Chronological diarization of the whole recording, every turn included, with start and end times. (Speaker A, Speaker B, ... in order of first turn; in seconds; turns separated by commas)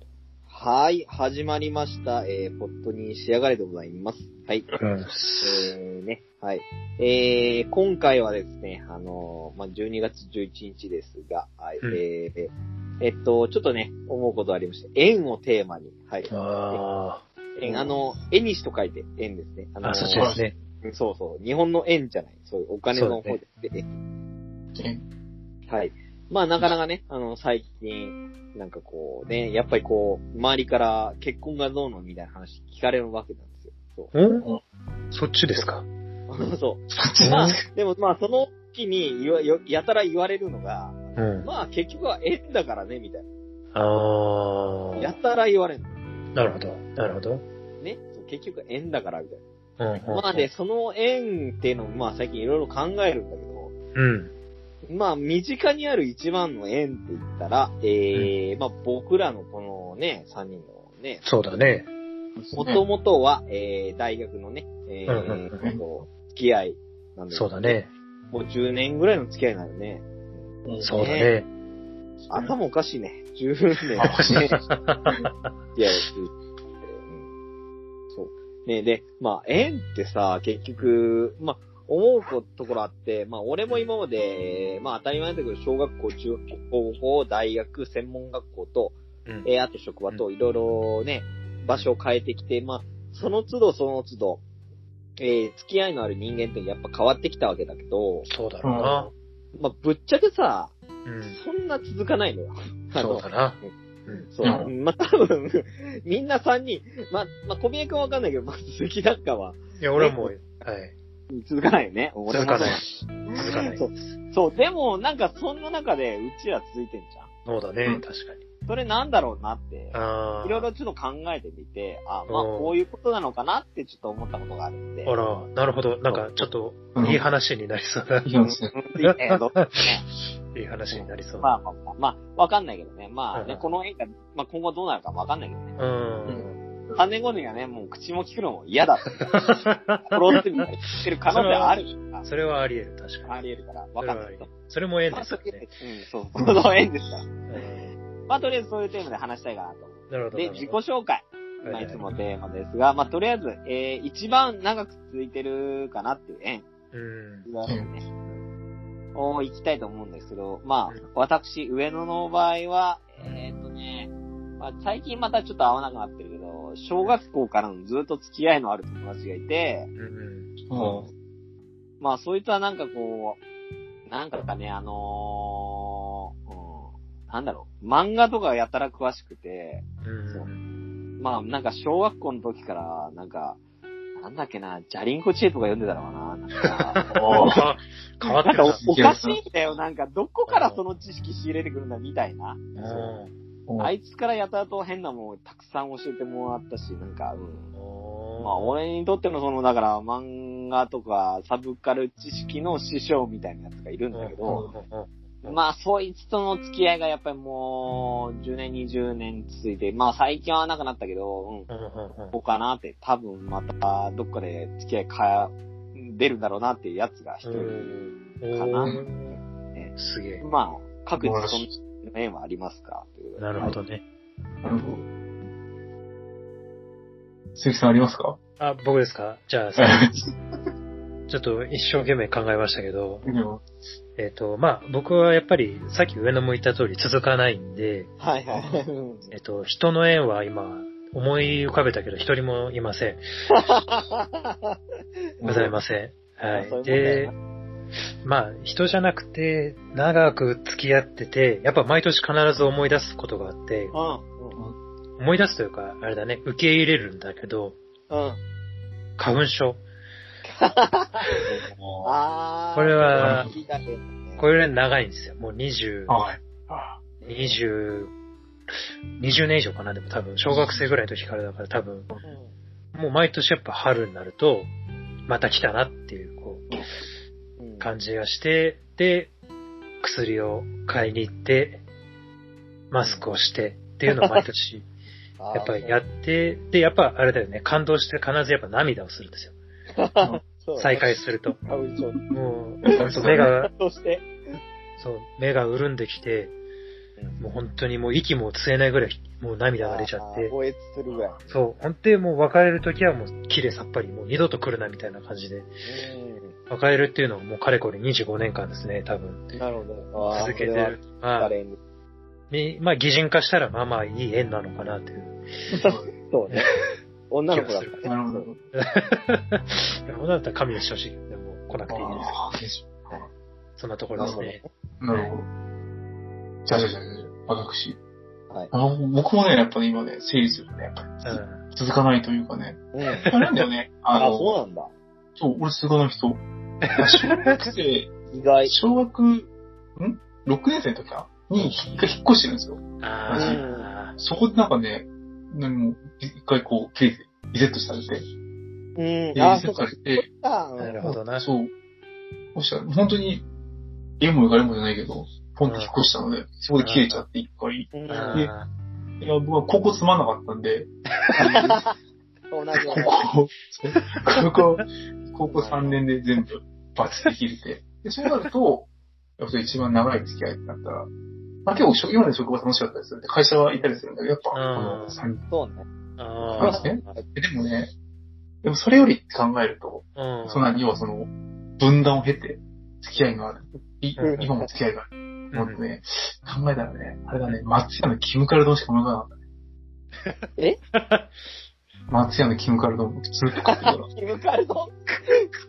Speaker A: 0.5-4.7, Speaker B: 4.8-5.7, Speaker A: 5.4-16.8, Speaker B: 16.3-17.2, Speaker A: 17.6-23.9, Speaker B: 19.8-20.6, Speaker C: 20.2-20.4, Speaker B: 22.9-23.4, Speaker C: 24.8-25.0, Speaker A: 25.7-34.1, Speaker B: 34.1-34.5, Speaker B: 35.1-35.9, Speaker A: 36.3-43.3, Speaker C: 36.9-37.6, Speaker B: 37.2-37.6, Speaker B: 41.2-41.5, Speaker B: 43.7-45.1, Speaker A: 45.0-45.9, Speaker B: 46.4-47.4, Speaker A: 47.8-49.4, Speaker B: 49.8-50.5, Speaker A: 50.1-53.7, Speaker B: 54.0-54.3, Speaker A: 54.9-61.2, Speaker B: 61.2-61.9, Speaker C: 62.4-62.8, Speaker A: 62.5-67.8, Speaker B: 65.1-65.6, Speaker B: 67.3-67.9, Speaker A: 68.3-70.1, Speaker C: 70.7-71.0, Speaker B: 70.8-71.5, Speaker A: 70.8-71.3, Speaker A: 72.3-74.7, Speaker C: 74.0-75.2, Speaker B: 74.0-75.5, Speaker A: 75.8-76.3, Speaker A: 76.8-77.2, Speaker A: 78.1-94.4, Speaker A: 95.2-98.3, Speaker B: 98.3-99.1, Speaker C: 98.6-99.1, Speaker A: 99.6-100.8, Speaker B: 101.0-101.4, Speaker A: 101.3-103.3, Speaker B: 103.0-104.3, Speaker A: 104.3-110.3, Speaker C: 104.4-104.7, Speaker B: 109.8-110.9, Speaker A: 111.3-117.3, Speaker B: 112.3-112.8, Speaker B: 113.3-113.9, Speaker B: 117.5-118.4, Speaker A: 118.7-125.1, Speaker B: 119.9-120.7, Speaker B: 122.3-122.7, Speaker B: 125.0-128.3, Speaker C: 127.0-127.2, Speaker C: 128.2-128.7, Speaker A: 128.7-130.1, Speaker B: 129.1-129.9, Speaker B: 130.5-131.5, Speaker A: 130.9-135.8, Speaker B: 133.3-133.7, Speaker B: 135.8-136.6, Speaker C: 136.3-137.0, Speaker A: 137.0-139.5, Speaker B: 139.3-140.7, Speaker A: 140.1-142.2, Speaker B: 141.3-143.3, Speaker A: 143.2-144.5, Speaker B: 144.0-145.7, Speaker A: 145.1-147.7, Speaker C: 146.4-146.6, Speaker B: 147.5-147.9, Speaker A: 148.3-156.7, Speaker B: 150.1-150.8, Speaker B: 151.6-152.2, Speaker B: 156.9-157.5, Speaker A: 157.5-158.4, Speaker C: 157.7-157.9, Speaker A: 159.2-169.9, Speaker B: 170.0-170.5, Speaker C: 170.7-171.1, Speaker A: 172.0-173.4, Speaker A: 174.1-180.5, Speaker B: 180.0-180.6, Speaker A: 181.2-183.6, Speaker A: 184.2-187.4, Speaker B: 186.9-188.8, Speaker C: 187.0-187.7, Speaker A: 188.3-193.1, Speaker C: 188.7-189.4, Speaker B: 190.5-190.8, Speaker B: 192.8-193.3, Speaker C: 193.7-193.9, Speaker A: 193.8-197.7, Speaker B: 197.8-198.8, Speaker A: 198.4-204.7, Speaker B: 204.1-205.6, Speaker C: 204.5-204.7, Speaker A: 205.4-211.7, Speaker B: 211.7-212.4, Speaker A: 212.3-223.5, Speaker B: 217.4-219.2, Speaker B: 220.0-220.4, Speaker C: 221.2-221.8, Speaker B: 223.4-224.0, Speaker C: 224.6-225.1, Speaker C: 227.6-228.4, Speaker B: 228.6-230.1, Speaker C: 229.8-230.3, Speaker B: 231.3-233.2, Speaker C: 233.2-233.6, Speaker B: 234.2-238.1, Speaker A: 238.2-239.3, Speaker B: 239.3-243.2, Speaker A: 243.5-244.8, Speaker C: 245.4-245.8, Speaker B: 245.5-247.3, Speaker A: 246.5-247.3, Speaker B: 248.2-253.9, Speaker A: 253.9-254.6, Speaker B: 255.2-257.8, Speaker A: 258.1-258.4, Speaker B: 259.2-259.8, Speaker A: 260.4-261.3, Speaker C: 261.5-262.1, Speaker A: 262.0-264.4, Speaker B: 262.8-263.5, Speaker C: 263.2-263.6, Speaker B: 264.4-266.1, Speaker C: 266.1-267.0, Speaker A: 267.2-267.6, Speaker B: 267.2-268.1, Speaker B: 269.2-272.1, Speaker C: 270.5-270.9, Speaker A: 272.2-272.5, Speaker B: 272.9-274.7, Speaker B: 275.3-276.8, Speaker A: 277.6-277.9, Speaker B: 277.8-279.3, Speaker B: 280.0-281.8, Speaker B: 282.9-284.9, Speaker A: 284.1-284.4, Speaker A: 285.4-286.0, Speaker B: 285.5-289.6, Speaker A: 290.0-291.1, Speaker B: 290.8-291.6, Speaker A: 291.6-292.2, Speaker B: 292.3-293.7, Speaker C: 292.9-293.5, Speaker A: 292.9-294.3, Speaker B: 295.0-296.5, Speaker B: 297.4-300.5, Speaker A: 299.8-301.4, Speaker C: 301.1-301.6, Speaker B: 301.5-305.7, Speaker A: 305.9-306.6, Speaker B: 306.7-309.6, Speaker A: 309.6-311.8, Speaker B: 310.3-311.5, Speaker B: 312.5-315.4, Speaker A: 315.7-316.7, Speaker C: 315.8-316.1, Speaker A: 317.3-318.5, Speaker B: 317.5-318.0, Speaker C: 318.0-318.6, Speaker B: 318.7-322.3, Speaker C: 321.9-323.3, Speaker B: 323.8-325.3, Speaker A: 324.2-324.7, Speaker C: 325.0-325.5, Speaker C: 326.7-328.0, Speaker C: 328.7-334.5, Speaker B: 331.2-331.6, Speaker A: 332.9-333.3, Speaker A: 334.1-334.9, Speaker C: 335.4-338.1, Speaker B: 336.8-337.7, Speaker A: 338.3-338.8, Speaker C: 338.7-343.6, Speaker B: 341.6-342.0, Speaker B: 343.0-344.2, Speaker A: 343.3-343.9, Speaker C: 344.2-348.3, Speaker A: 349.0-351.1, Speaker C: 349.4-350.2, Speaker B: 350.8-351.5, Speaker C: 351.0-351.7, Speaker C: 352.6-353.4, Speaker C: 354.2-358.5, Speaker B: 355.6-355.9, Speaker B: 356.8-357.2, Speaker A: 357.9-358.5, Speaker B: 358.1-358.7, Speaker C: 359.2-361.8, Speaker B: 361.3-361.6, Speaker A: 361.3-361.9, Speaker A: 362.5-363.1, Speaker C: 362.9-368.9, Speaker B: 363.9-364.3, Speaker A: 365.5-365.8, Speaker B: 365.6-366.0, Speaker B: 367.1-367.3, Speaker C: 369.4-371.1, Speaker C: 371.7-375.4, Speaker B: 374.5-375.2, Speaker A: 375.5-375.9, Speaker B: 376.2-376.8, Speaker C: 376.6-377.9, Speaker A: 376.6-377.3, Speaker C: 378.6-389.3, Speaker B: 380.2-380.8, Speaker B: 384.2-384.5, Speaker A: 384.2-384.6, Speaker B: 385.5-385.8, Speaker B: 390.9-391.3, Speaker C: 392.1-394.1, Speaker A: 393.6-395.5